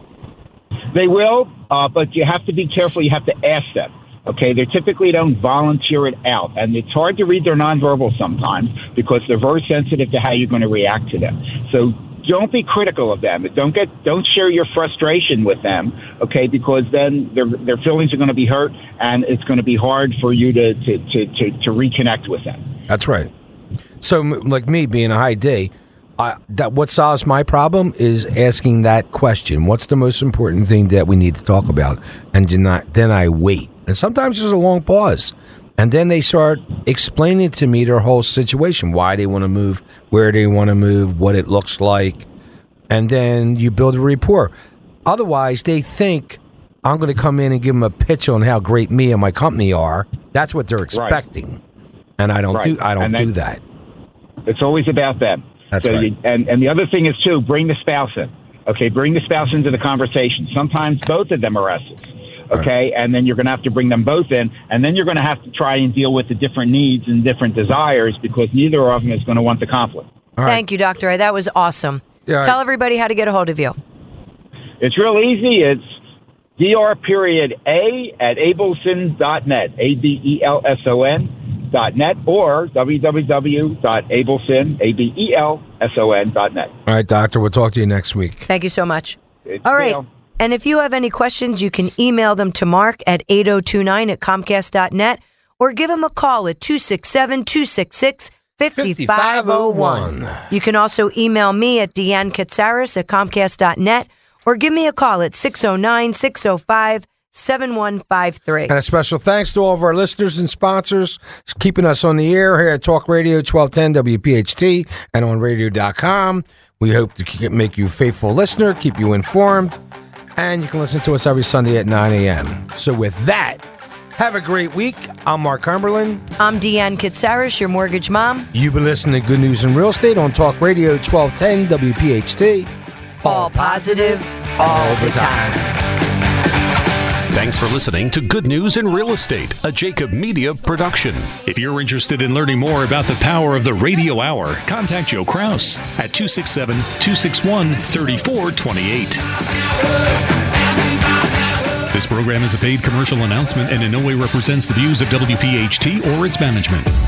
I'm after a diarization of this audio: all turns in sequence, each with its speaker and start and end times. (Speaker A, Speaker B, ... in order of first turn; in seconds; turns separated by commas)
Speaker A: 0.9-22.7, Speaker B: 22.9-23.3, Speaker B: 24.0-42.3, Speaker B: 42.9-44.5, Speaker B: 45.1-51.6, Speaker A: 50.9-51.2, Speaker B: 52.2-53.6, Speaker A: 52.5-53.3, Speaker A: 54.5-70.1, Speaker B: 55.7-56.1, Speaker B: 70.4-70.6, Speaker C: 70.5-73.8, Speaker B: 72.3-72.6, Speaker A: 74.8-75.8, Speaker A: 76.6-86.7, Speaker B: 86.9-88.5, Speaker C: 88.5-108.7, Speaker A: 89.5-90.1, Speaker B: 98.8-100.4, Speaker B: 108.7-119.8, Speaker B: 120.4-123.6, Speaker B: 124.2-126.2, Speaker C: 126.4-128.5, Speaker B: 128.5-132.7, Speaker B: 133.2-135.6, Speaker C: 133.2-135.5, Speaker D: 137.3-149.2, Speaker D: 151.9-156.9